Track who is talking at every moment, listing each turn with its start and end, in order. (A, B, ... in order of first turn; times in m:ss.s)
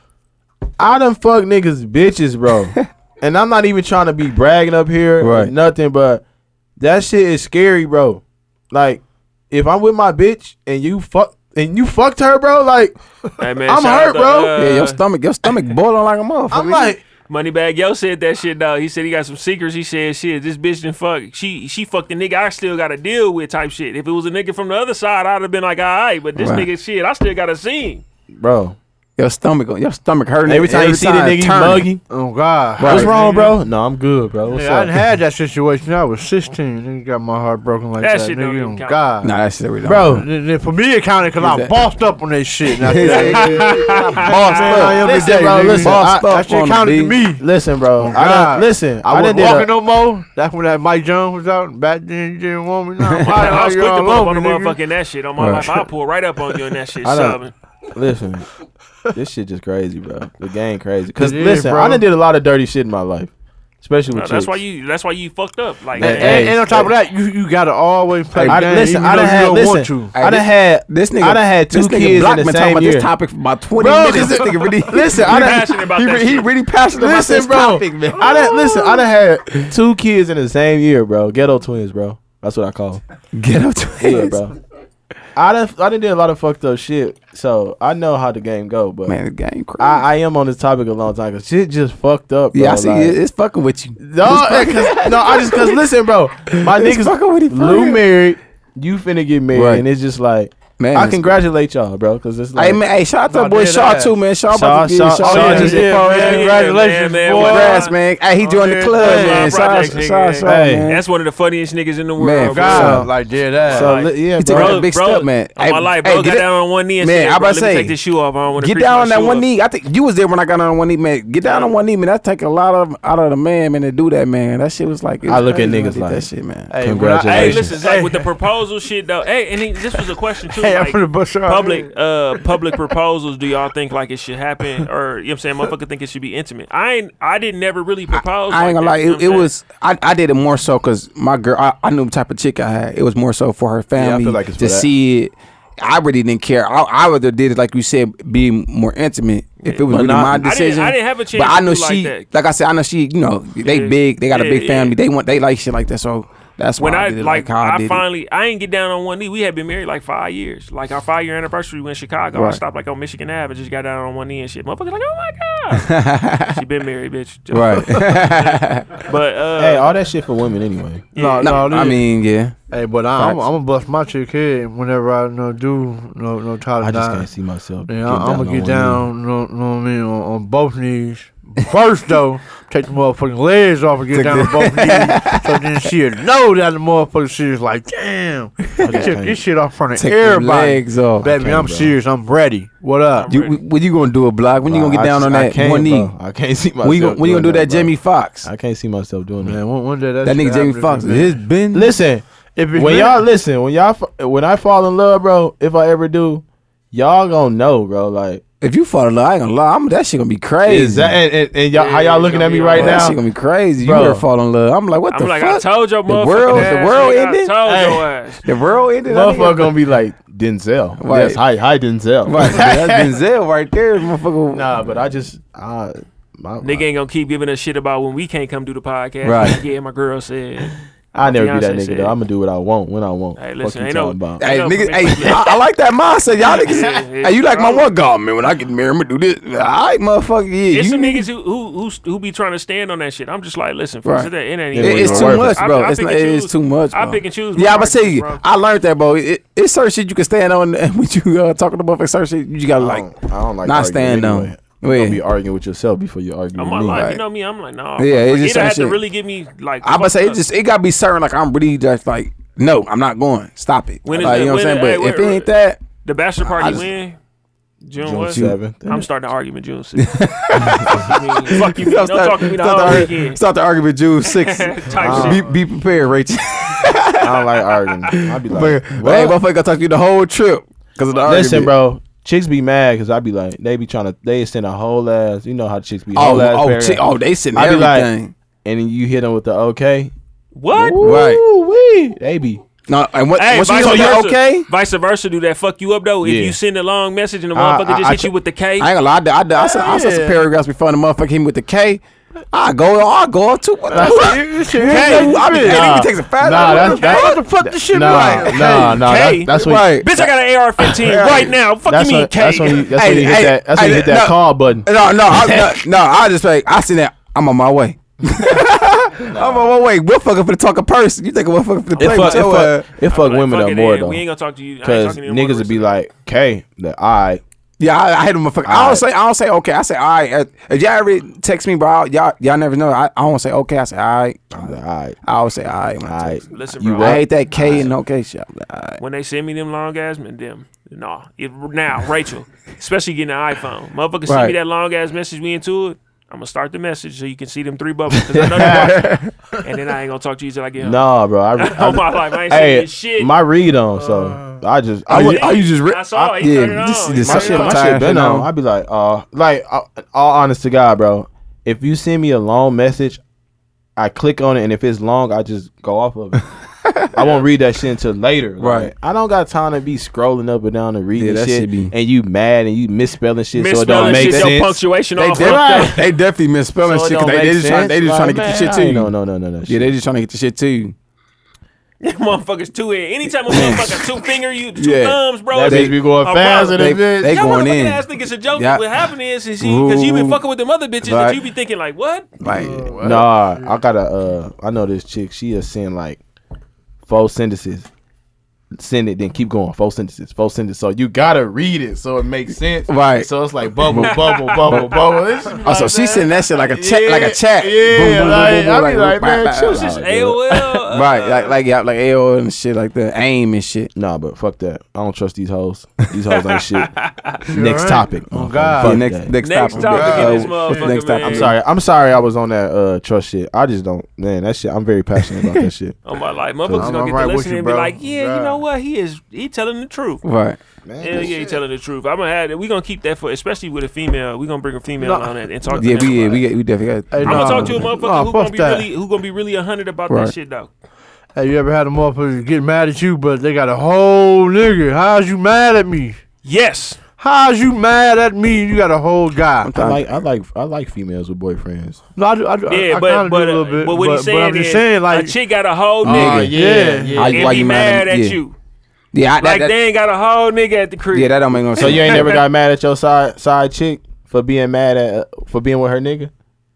0:00.8-0:06.2 A
0:05.2-0:05.5 B
0:06.8-0:13.0 A
0:13.4-0:15.0 C
0:13.6-0:14.5 A
0:14.6-0:16.9 B
0:16.5-0:17.0 A
0:17.3-0:28.0 C
0:26.4-0:26.7 B
0:28.3-0:28.8 A
0:29.2-0:31.9 B
0:30.5-0:32.0 A
0:32.1-0:33.6 D
0:32.8-0:33.1 B
0:32.8-0:35.0 A
0:34.5-0:39.3 D
0:38.0-0:39.0 C
0:39.2-0:40.2 B
0:39.8-0:40.3 A
0:40.1-0:47.4 D
0:41.4-0:41.8 B
0:42.8-0:47.2 B
0:43.2-0:44.7 C
0:44.2-0:46.3 A
0:47.4-0:49.7 A
0:48.0-0:54.8 D
0:53.2-0:57.5 C
0:55.4-0:55.8 B
0:57.0-0:57.4 A
0:57.9-0:58.5 A
0:59.1-1:04.6 A
1:01.2-1:02.0 D
1:04.1-1:06.5 C
1:06.0-1:06.9 A
1:06.0-1:10.1 D
1:08.3-1:08.7 B
1:08.4-1:13.1 A
1:10.1-1:19.0 B
1:13.8-1:15.7 A
1:15.2-1:16.5 C
1:16.9-1:23.0 A
1:23.3-1:24.4 B
1:24.0-1:24.6 A
1:25.4-1:29.2 A
1:29.1-1:30.0 B
1:29.8-1:33.2 A
1:32.5-1:35.8 B
1:34.0-1:42.8 A
1:36.5-1:38.0 B
1:39.5-1:39.8 B
1:40.8-1:41.4 B
1:42.6-1:46.6 B
1:43.3-1:44.2 D
1:44.5-1:46.0 A
1:45.2-1:49.6 D
1:45.9-1:47.9 C
1:47.3-1:51.0 B
1:49.0-1:53.0 C
1:50.4-1:50.9 A
1:52.2-1:53.1 B
1:52.5-1:54.0 D
1:52.7-1:53.1 A
1:53.7-1:54.8 A
1:53.7-1:59.5 C
1:54.4-1:56.5 B
1:57.0-1:58.0 B
1:58.6-2:06.7 B
2:01.4-2:01.7 C
2:05.2-2:07.8 A
2:06.7-2:08.3 D
2:07.3-2:19.5 C
2:10.5-2:11.9 D
2:18.5-2:38.0 B
2:24.0-2:24.9 A
2:29.9-2:30.5 A
2:30.4-2:32.3 C
2:33.6-2:35.0 C
2:36.8-2:45.9 C
2:42.4-2:42.6 B
2:45.8-2:46.6 B
2:46.5-2:50.0 C
2:47.5-2:48.9 B
2:49.6-2:51.1 A
2:51.1-2:51.8 C
2:51.2-2:52.0 D
2:51.4-2:52.6 B
2:52.7-2:57.3 D
2:53.2-2:53.4 B
2:56.8-2:59.1 A
2:57.9-3:13.3 D
3:04.1-3:05.6 B
3:08.8-3:09.4 A
3:08.9-3:09.1 B
3:10.0-3:11.3 B
3:11.2-3:12.0 A
3:13.2-3:13.6 C
3:13.3-3:16.1 B
3:14.6-3:17.9 A
3:16.8-3:18.5 B
3:18.4-3:19.6 A
3:19.4-3:21.4 D
3:20.2-3:21.9 B
3:21.7-3:28.4 A
3:22.6-3:23.2 D
3:28.6-3:31.2 B
3:30.6-3:33.2 A
3:31.7-3:33.1 C
3:32.7-3:37.6 B
3:33.8-3:34.2 A
3:35.1-3:38.4 C
3:37.6-3:38.1 A
3:38.4-3:39.7 B
3:39.1-3:43.2 A
3:41.0-3:41.4 B
3:42.2-3:44.7 B
3:44.5-3:46.8 A
3:46.6-3:52.2 C
3:49.2-3:49.6 B
3:51.1-3:54.4 A
3:53.4-3:55.6 C
3:54.4-4:01.3 B
3:56.6-3:57.9 C
4:00.7-4:08.4 C
4:04.0-4:13.1 B
4:04.7-4:05.6 A
4:12.8-4:17.0 A
4:13.6-4:15.2 B
4:16.6-4:20.4 C
4:16.9-4:17.2 B
4:18.0-4:19.0 B
4:19.8-4:25.8 B
4:24.0-4:25.5 C
4:26.0-4:27.2 C
4:26.4-4:26.8 B
4:27.8-4:30.2 C
4:28.0-4:29.1 A
4:28.3-4:28.6 B
4:30.0-4:37.4 B
4:30.8-4:33.4 C
4:34.2-4:35.5 C
4:35.0-4:35.5 A
4:37.2-4:39.4 A
4:38.1-4:41.7 B
4:41.2-4:47.0 A
4:46.2-4:48.3 B
4:47.5-4:48.1 A
4:48.6-4:50.1 A
4:50.6-4:51.0 C
4:50.7-4:52.6 A
4:51.0-4:51.4 B
4:52.9-4:54.7 B
4:53.4-4:58.9 C
4:56.2-4:56.6 A
4:57.6-4:58.3 A
4:58.8-5:07.4 B
4:59.6-5:00.4 D
5:03.9-5:04.4 A
5:03.9-5:09.0 D
5:04.9-5:05.5 C
5:05.5-5:10.0 A
5:08.0-5:08.4 B
5:08.8-5:12.8 C
5:09.5-5:11.6 B
5:11.9-5:15.8 A
5:12.9-5:22.9 B
5:19.3-5:19.7 A
5:22.0-5:22.5 C
5:22.0-5:24.2 A
5:23.0-5:25.9 C
5:24.8-5:27.4 A
5:27.8-5:36.4 B
5:28.6-5:29.0 A
5:34.5-5:35.2 A
5:36.0-5:37.9 A
5:36.5-5:37.9 C
5:37.0-5:39.0 B
5:39.0-5:53.3 C
5:44.3-5:44.6 B
5:48.3-5:49.0 A
5:48.4-5:49.3 B
5:50.8-5:55.6 A
5:54.0-5:54.6 D
5:55.1-5:57.9 C
5:55.1-5:58.5 B
5:57.2-6:03.2 A
6:04.0-6:06.4 A
6:06.8-6:07.1 B
6:07.1-6:14.8 A
6:08.6-6:08.9 B
6:11.2-6:11.9 B
6:13.6-6:16.0 C
6:13.9-6:14.6 B
6:15.2-6:19.1 B
6:15.3-6:16.0 A
6:16.8-6:19.9 A
6:19.7-6:21.0 B
6:22.0-6:32.3 C
6:23.5-6:24.1 B
6:24.8-6:26.0 B
6:25.5-6:27.5 A
6:26.7-6:28.0 B
6:28.6-6:28.8 B
6:29.6-6:30.4 B
6:31.0-6:31.4 B
6:32.4-6:33.0 B
6:32.4-6:33.8 D
6:33.0-6:36.2 A
6:37.1-6:37.9 A
6:38.8-6:50.6 A
6:42.9-6:43.3 B
6:43.9-6:44.9 B
6:44.0-6:45.0 C
6:45.6-6:49.8 B
6:45.6-6:46.4 C
6:49.7-6:51.5 C
6:50.9-6:53.9 B
6:54.0-6:56.9 A
6:56.3-6:57.4 C
6:57.5-6:59.3 A
6:57.5-6:59.0 D
6:58.8-7:01.6 B
6:59.4-7:01.5 C
6:59.9-7:00.9 D
7:01.2-7:06.0 A
7:06.0-7:10.2 C
7:06.7-7:08.6 D
7:10.2-7:10.6 B
7:10.8-7:11.6 A
7:11.0-7:16.4 C
7:11.1-7:11.4 D
7:15.0-7:15.3 D
7:15.8-7:17.8 B
7:17.1-7:18.9 D
7:17.2-7:20.7 C
7:21.4-7:26.2 D
7:26.4-7:27.0 C
7:27.2-7:29.7 D
7:29.6-7:30.0 B
7:29.8-7:32.0 A
7:32.2-7:35.4 D
7:32.7-7:36.5 C
7:36.0-7:37.6 A
7:36.0-7:36.6 B
7:36.1-7:37.2 D
7:37.1-7:38.4 B
7:37.3-7:38.6 C
7:39.1-7:39.7 B
7:39.4-7:42.3 C
7:41.1-7:42.3 B
7:41.8-7:46.3 A